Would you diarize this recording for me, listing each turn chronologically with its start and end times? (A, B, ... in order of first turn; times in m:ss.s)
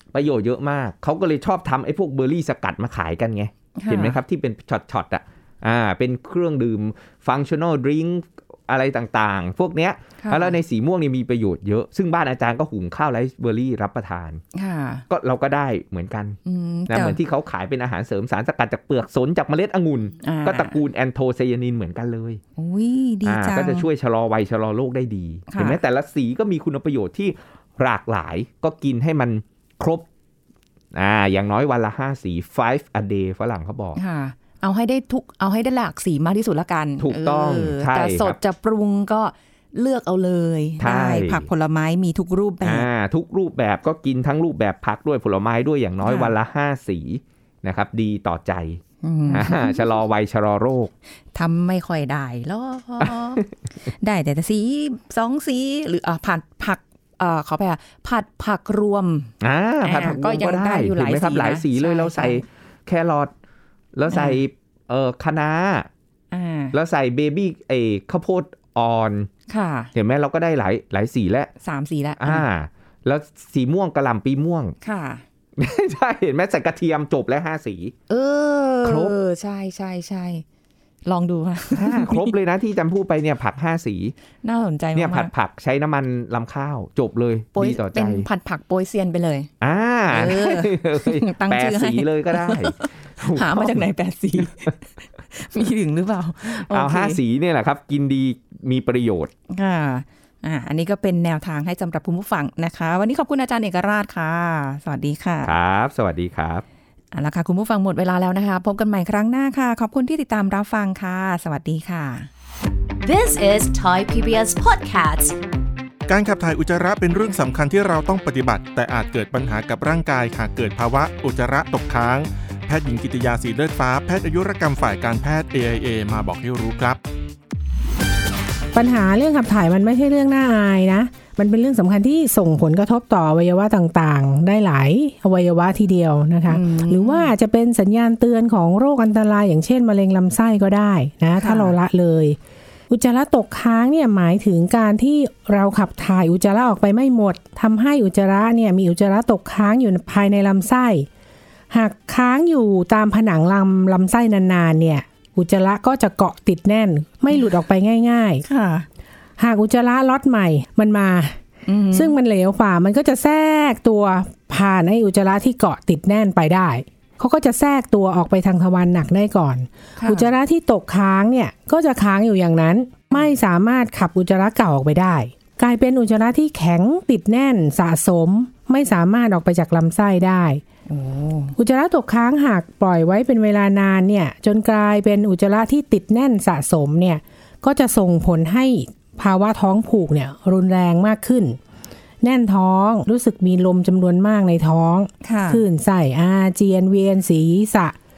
0:00.1-0:14.4 A
0:03.8-0:04.2 B
0:10.2-0:10.6 B
0:14.5-0:15.1 B
0:15.1-0:22.4 A
0:16.4-0:17.2 B
0:20.2-0:20.8 B
0:22.6-0:23.9 B
0:23.2-0:30.1 A
0:25.5-0:25.8 B
0:30.9-0:34.0 A
0:34.0-0:42.9 B
0:37.0-0:38.4 A
0:40.8-0:41.5 A
0:42.6-0:50.9 A
0:46.0-0:46.4 B
0:49.0-0:49.8 B
0:51.4-1:02.4 B
0:53.0-0:53.5 A
0:59.4-1:03.3 A
1:04.0-1:05.9 A
1:04.1-1:04.4 B
1:06.3-1:06.8 B
1:06.7-1:09.3 A
1:09.5-1:09.9 B
1:09.9-1:11.5 A
1:11.6-1:12.5 B
1:12.2-1:14.8 A
1:14.8-1:15.2 B
1:15.6-1:18.0 A
1:18.1-1:20.4 B
1:18.8-1:19.2 A
1:21.1-1:22.3 B
1:21.7-1:24.2 A
1:24.4-1:25.3 B
1:25.0-1:28.3 A
1:27.6-1:29.5 B
1:29.6-1:33.9 A
1:30.1-1:37.2 B
1:34.4-1:34.7 A
1:36.6-1:39.3 A
1:39.5-1:45.5 B
1:45.4-1:46.6 A
1:47.1-1:52.3 B
1:53.0-1:55.4 C
1:56.1-2:07.0 D
2:08.7-2:22.4 E
2:16.5-2:17.3 B
2:21.4-2:21.8 B
2:22.9-2:31.1 E
2:31.7-2:38.4 E
2:38.4-2:38.9 B
2:39.4-2:41.4 E
2:41.7-2:42.2 B
2:41.9-3:00.6 E
2:50.0-2:50.3 B
3:00.9-3:01.6 B
3:01.6-3:11.6 E
3:12.2-3:18.0 E
3:15.2-3:15.6 B